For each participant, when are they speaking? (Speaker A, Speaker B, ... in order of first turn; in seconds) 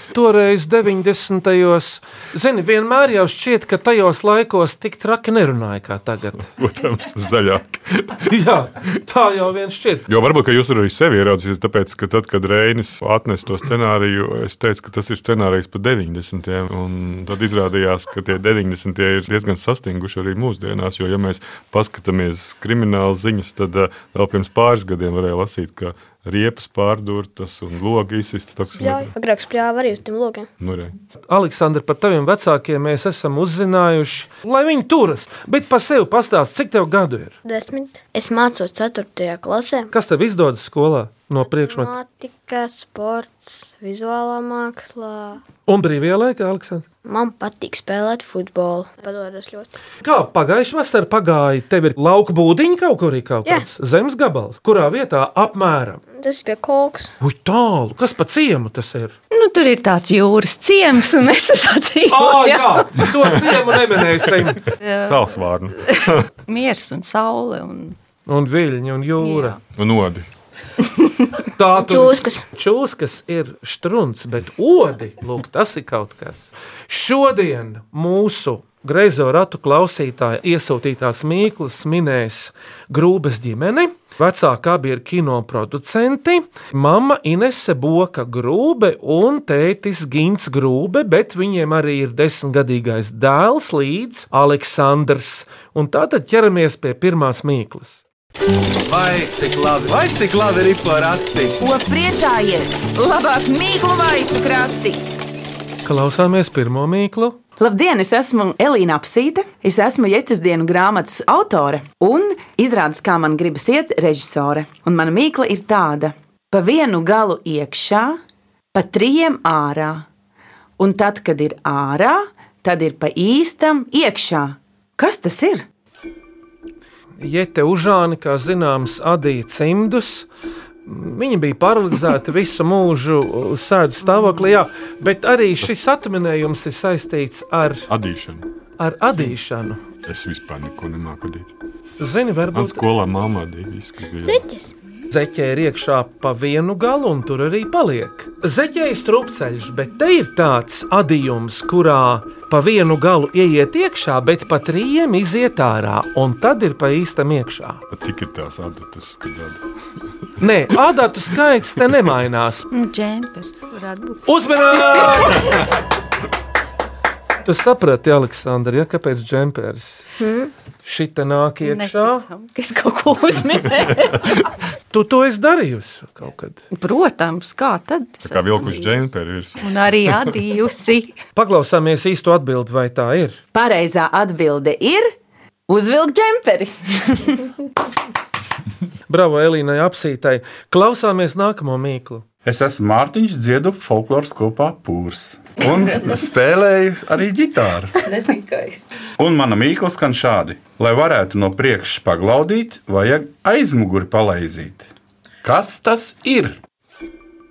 Speaker A: 0.1-6.5, 8.3-10.1, 31.3-37.4, 39.9-41.9, 45.7-46.9, 50.0-56.0, 57.2-59.1, 62.1-64.6, 68.3-69.6, 71.6-98.0, 105.8-107.4, 127.2-130.3, 130.9-137.9, 138.8-139.8, 142.0-142.8, 145.1-157.8, 160.4-162.7, 164.2-165.6, 167.4-170.0, 170.8-172.2, 174.9-176.6, 181.3-183.4, 189.1-192.2
Speaker B: 6.5-8.3, 10.1-29.1, 30.6-30.9, 65.0-66.2, 69.7-70.3, 137.9-138.4, 140.1-141.5, 142.5-144.4, 157.9-159.6, 178.2-180.3
Speaker C: 28.8-30.5, 37.4-39.9, 41.5-45.4, 47.0-49.7, 56.1-57.1, 71.8-72.4, 144.2-144.7, 170.2-170.5
Speaker D: 59.3-62.9, 64.8-65.3, 65.8-68.0, 69.2-69.6, 162.7-164.2, 171.6-174.2, 176.7-181.2
Speaker E: 98.8-101.6
Speaker F: 101.6-105.0
Speaker G: 107.6-118.2, 118.7-120.1, 120.8-125.7, 183.5-185.1, 185.7-187.5
Speaker H: 192.5-198.1, 199.2-204.9, 205.4-206.6